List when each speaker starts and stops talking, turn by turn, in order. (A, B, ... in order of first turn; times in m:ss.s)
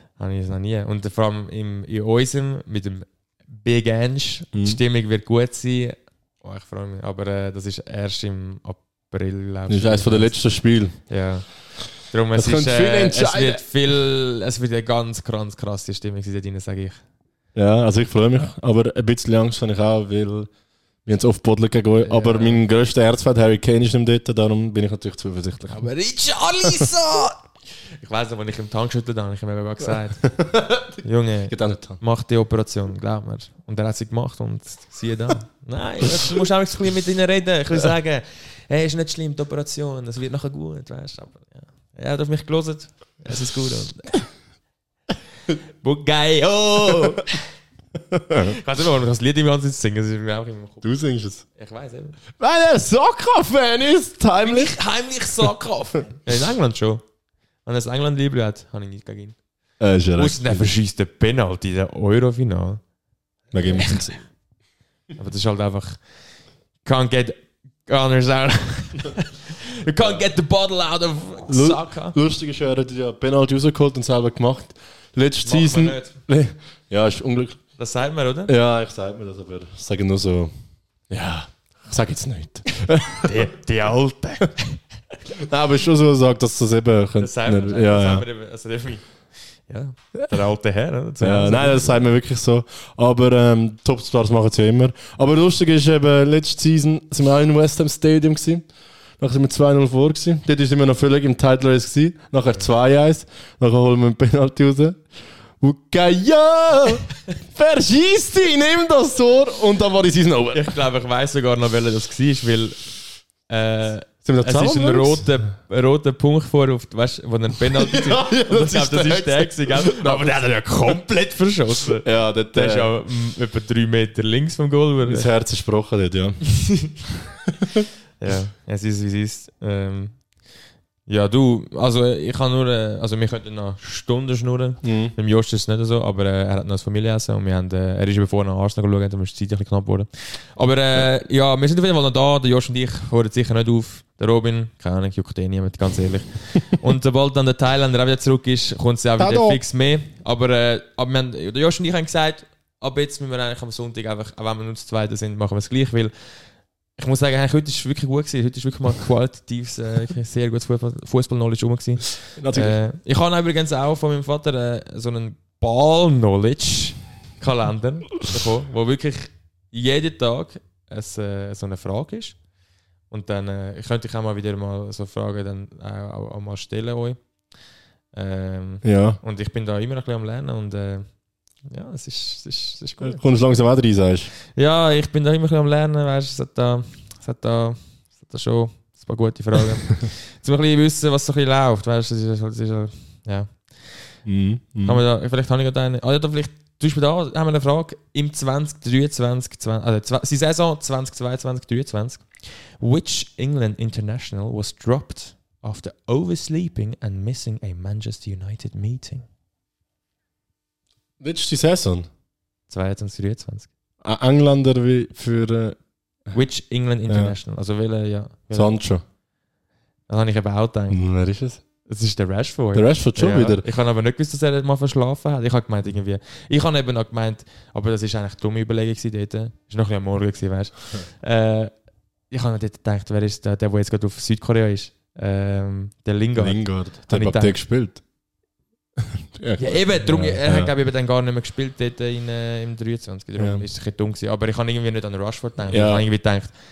0:00.2-0:10.4 A
0:04.5-0:04.8 B
0:09.7-0:10.9 B
0:11.1-0:11.5 A
0:12.0-0:17.0 A
0:12.3-0:13.6 B
0:17.5-0:20.5 B
0:21.0-0:25.9 B
0:22.0-0:22.6 A
0:25.7-0:27.4 A
0:28.0-0:30.3 A
0:30.2-0:32.0 B
0:31.0-0:44.3 A
0:36.0-0:36.4 B
0:45.8-0:47.4 A
0:48.1-0:48.6 B
0:48.4-0:50.9 A
0:50.8-0:51.4 B
0:51.6-0:52.2 A
0:52.4-0:54.8 B
0:54.4-0:57.0 A
0:57.6-0:59.4 A
0:59.8-1:00.7 B
1:00.1-1:02.8 A
1:03.5-1:04.2 B
1:03.6-1:04.1 A
1:05.2-1:06.0 A
1:06.8-1:12.2 A
1:11.5-1:17.6 B
1:15.4-1:16.1 A
1:17.8-1:18.5 A
1:18.5-1:20.5 B
1:21.1-1:23.4 B
1:23.2-1:24.8 A
1:25.3-1:28.2 B
1:27.2-1:29.0 A
1:29.7-1:32.1 A
1:31.2-1:38.7 B
1:39.2-1:45.0 B
1:45.6-1:50.7 B
1:50.5-1:52.8 A
1:53.5-2:05.3 A
1:54.2-1:55.3 B
1:57.6-2:00.4 B
2:02.0-2:02.9 B
2:05.0-2:07.6 B
2:06.5-2:06.9 A
2:08.2-2:10.2 A
2:11.1-2:36.1 A
2:14.8-2:15.1 B
2:29.2-2:29.6 B
2:37.0-2:52.4 A
2:42.4-2:42.8 B
2:53.1-2:57.2 A
2:58.1-3:01.1 A
2:58.8-2:59.2 B
3:01.7-3:03.2 A
3:03.0-3:04.3 B
3:04.5-3:14.1 A
3:14.2-3:15.0 B
3:14.8-3:29.2 A
3:31.2-3:32.1 B
3:32.7-3:33.7 A
3:34.0-3:35.8 B
3:36.3-3:38.8 A
3:37.1-3:37.3 B
3:38.5-3:39.0 B
3:40.1-3:41.0 A
3:40.9-3:41.6 B
3:41.8-3:51.7 A
3:42.7-3:43.6 B
3:52.3-3:57.6 A
3:56.4-3:58.0 B
3:59.0-4:00.7 B
3:59.6-4:06.5 A
4:03.4-4:03.6 B
4:05.7-4:06.0 B